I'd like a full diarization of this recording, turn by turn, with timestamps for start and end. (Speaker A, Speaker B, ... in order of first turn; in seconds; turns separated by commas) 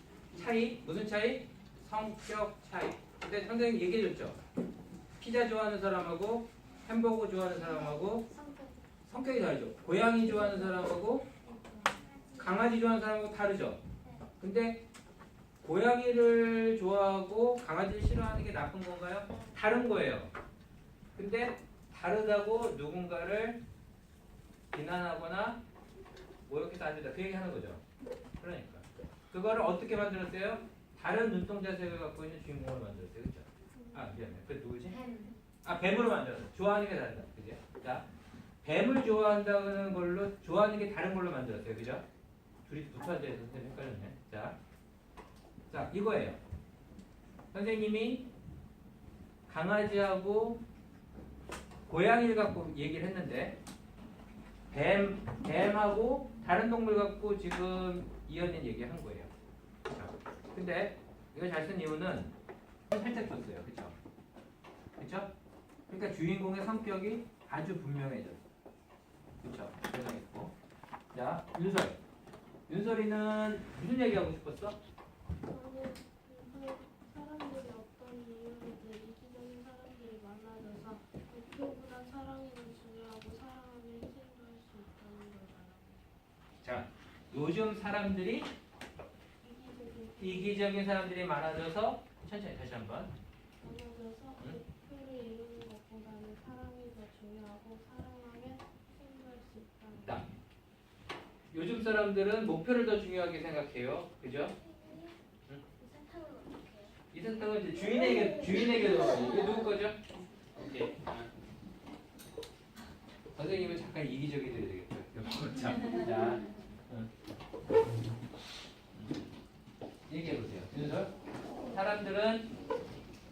Speaker A: 0.3-4.4, Speaker A: 5.2-8.3, Speaker B: 8.3-8.7, Speaker A: 9.1-11.3, Speaker B: 11.5-12.6, Speaker A: 12.4-13.8, Speaker B: 14.0-14.3, Speaker A: 14.4-14.8, Speaker A: 15.6-20.3, Speaker A: 21.1-23.6, Speaker A: 24.7-25.6, Speaker A: 26.5-27.8, Speaker A: 28.4-35.0, Speaker C: 33.8-34.1, Speaker B: 35.0-35.3, Speaker A: 35.6-38.0, Speaker A: 38.6-42.0, Speaker A: 42.6-44.6, Speaker A: 45.7-46.4, Speaker A: 47.5-48.3, Speaker A: 49.5-50.6, Speaker A: 51.9-53.5, Speaker A: 54.7-59.3, Speaker A: 59.9-62.3, Speaker A: 62.9-64.0, Speaker A: 65.0-65.3, Speaker A: 65.9-68.4, Speaker A: 69.4-70.5, Speaker A: 71.1-72.0, Speaker A: 72.7-74.8, Speaker C: 75.4-86.0, Speaker A: 86.6-88.5, Speaker C: 89.4-90.7, Speaker A: 90.2-93.1, Speaker C: 93.6-100.2, Speaker A: 101.5-104.5, Speaker B: 104.6-105.2, Speaker B: 105.8-106.9, Speaker A: 107.1-110.0, Speaker B: 107.8-109.7, Speaker A: 110.6-111.2, Speaker A: 113.3-117.1, Speaker A: 120.1-121.1, Speaker A: 121.7-122.5